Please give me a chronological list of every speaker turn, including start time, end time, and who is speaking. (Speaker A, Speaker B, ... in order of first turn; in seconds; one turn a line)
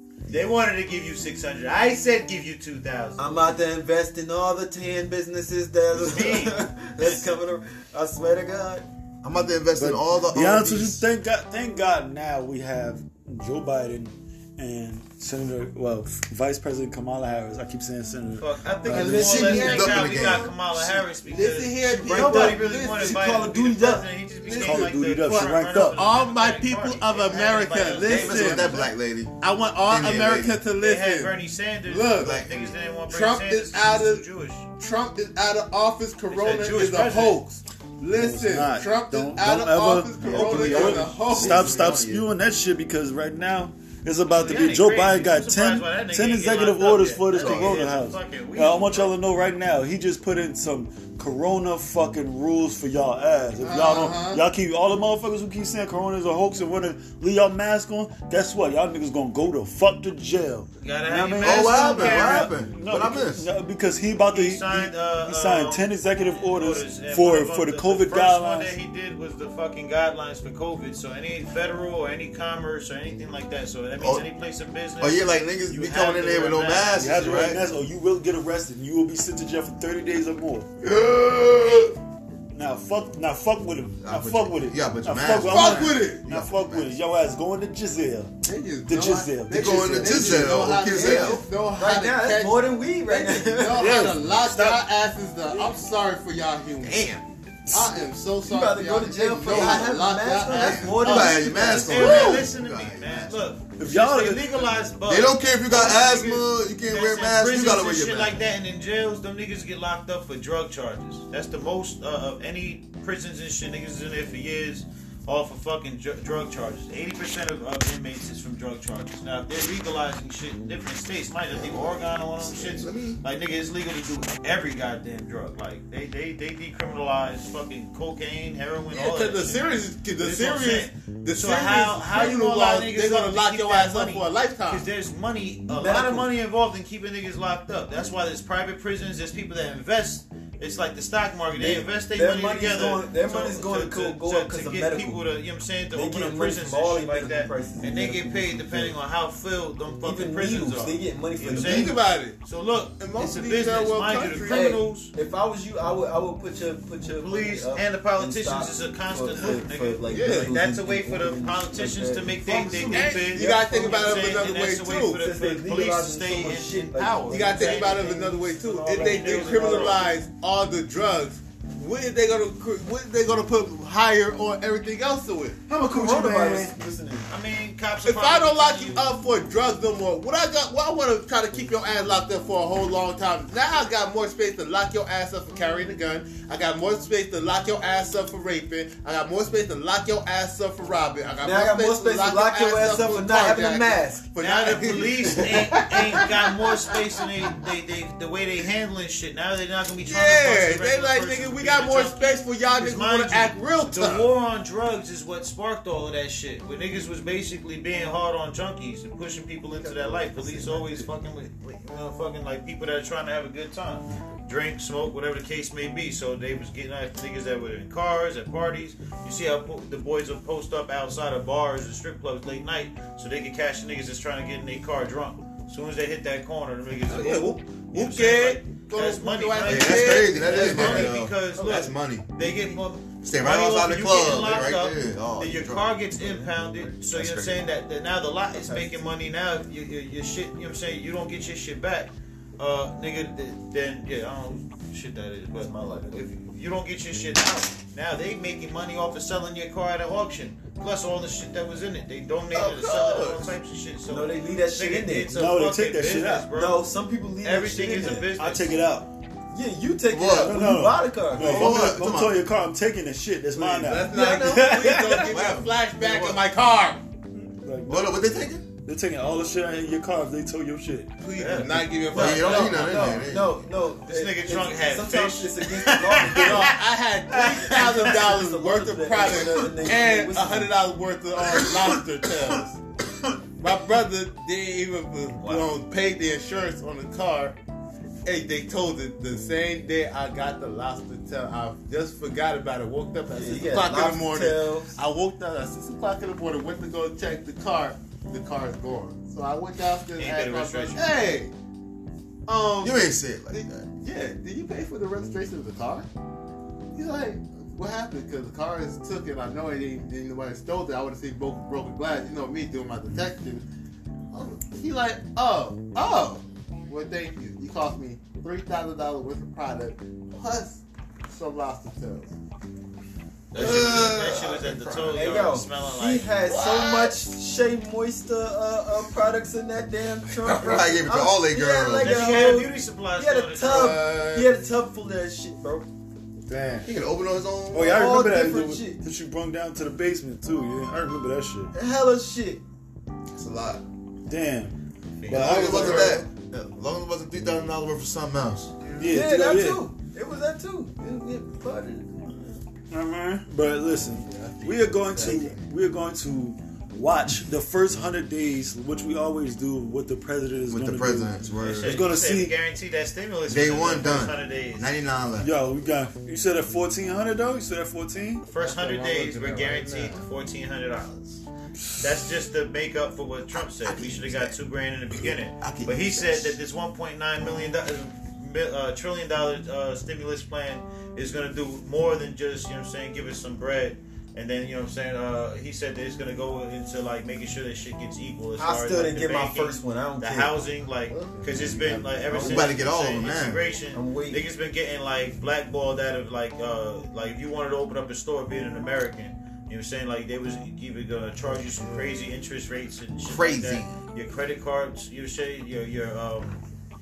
Speaker A: 0.3-3.4
Speaker B: 3.2-8.9
Speaker A: 5.9-6.7
Speaker C: 9.2-11.0
Speaker D: 9.8-19.3
Speaker A: 18.4-28.9
Speaker E: 18.9-23.2
Speaker C: 18.9-20.5
Speaker B: 21.9-24.1
Speaker E: 24.4-28.7
Speaker D: 24.5-26.0
Speaker C: 28.0-29.3
Speaker E: 29.4-31.3
Speaker C: 29.9-30.6
Speaker A: 30.8-34.7
Speaker E: 31.9-32.4
Speaker C: 32.2-32.7
Speaker E: 33.1-34.2
Speaker E: 34.8-41.8
Speaker A: 36.3-37.4
Speaker D: 38.1-68.7
Speaker C: 40.2-42.3
Speaker A: 44.3-49.1
Speaker C: 47.3-47.8
Speaker E: 53.6-54.4
Speaker A: 60.8-62.5
Speaker C: 61.4-63.5
Speaker A: 64.3-77.1
Speaker C: 74.0-74.2
Speaker C: 75.0-77.6
Speaker D: 77.0-80.7
Speaker E: 80.8-81.9
Speaker D: 82.5-88.3
Speaker C: 84.0-87.0
Speaker E: 85.5-86.2
Speaker E: 88.4-97.0
Speaker D: 88.9-90.5
Speaker C: 89.5-91.4
Speaker B: 90.8-94.2
Speaker D: 93.8-94.8
Speaker C: 96.8-97.2
Speaker D: 97.7-97.9
Speaker E: 97.7-101.1
Speaker B: 98.4-102.2
Speaker C: 99.5-99.9
Speaker A: 100.5-155.1
Speaker C: 100.5-103.4
Speaker E: 102.0-102.4
Speaker D: 103.8-104.6
Speaker C: 105.0-108.4
Speaker C: 121.5-123.2
Speaker E: 128.9-134.8
Speaker B: 135.7-136.3
Speaker B: 141.5-145.2
Speaker B: 145.9-148.9
Speaker B: 150.0-152.0
Speaker E: 151.4-152.4
Speaker E: 153.0-154.7
Speaker B: 154.3-164.4
Speaker A: 157.0-170.1
Speaker E: 159.4-160.5
Speaker E: 162.4-165.2
Speaker B: 165.1-170.0
Speaker E: 167.3-175.6
Speaker D: 175.7-176.8
Speaker B: 175.7-177.3
Speaker A: 177.3-179.1
Speaker E: 178.0-197.0
Speaker B: 191.4-194.3
Speaker A: 194.4-256.9
Speaker E: 200.0-204.3
Speaker C: 209.8-211.0
Speaker E: 227.1-231.2
Speaker C: 229.6-232.6
Speaker C: 233.2-237.6
Speaker E: 252.5-253.5
Speaker B: 254.1-255.3
Speaker D: 255.3-256.5
Speaker B: 256.5-258.3
Speaker A: 257.4-258.8
Speaker D: 258.4-259.1
Speaker B: 259.5-261.9
Speaker C: 260.1-260.7
Speaker D: 260.3-264.2
Speaker C: 261.4-262.4
Speaker E: 263.5-267.0
Speaker B: 264.1-265.3
Speaker C: 265.1-266.4
Speaker D: 267.3-268.3
Speaker C: 267.9-268.6
Speaker D: 268.8-271.1
Speaker E: 271.2-273.2
Speaker A: 271.3-272.9
Speaker C: 272.1-273.6
Speaker B: 272.3-276.8
Speaker A: 274.0-276.8
Speaker E: 276.3-282.8
Speaker B: 277.3-280.7
Speaker A: 277.4-278.3
Speaker E: 283.6-287.6
Speaker A: 285.4-285.7
Speaker E: 288.2-301.5
Speaker B: 293.3-294.9
Speaker A: 300.2-301.1
Speaker E: 302.5-306.1
Speaker C: 302.8-303.9
Speaker E: 306.9-313.6
Speaker E: 314.3-322.4
Speaker A: 323.5-326.3
Speaker C: 323.5-325.1
Speaker E: 323.6-323.9
Speaker B: 325.1-335.9
Speaker E: 326.4-327.2
Speaker C: 330.5-332.3
Speaker A: 332.0-333.9
Speaker E: 333.6-334.6
Speaker D: 336.5-336.9
Speaker C: 336.8-338.0
Speaker D: 337.7-341.7
Speaker B: 337.8-339.0
Speaker B: 341.7-342.6
Speaker C: 343.3-343.8
Speaker D: 344.3-346.2
Speaker A: 345.2-346.0
Speaker C: 345.3-348.7
Speaker E: 345.4-346.2
Speaker D: 349.0-349.9
Speaker B: 349.0-352.6
Speaker D: 352.9-362.6
Speaker E: 354.2-355.6
Speaker C: 360.7-362.1
Speaker A: 361.6-364.9
Speaker C: 363.5-365.5
Speaker D: 365.4-368.4
Speaker A: 368.4-371.4
Speaker E: 368.6-370.2
Speaker A: 372.0-406.6
Speaker C: 373.8-374.6
Speaker C: 375.1-376.6
Speaker B: 388.6-390.7
Speaker E: 391.1-392.5
Speaker B: 392.3-392.6
Speaker C: 392.3-393.7
Speaker B: 393.9-394.4
Speaker C: 403.2-404.0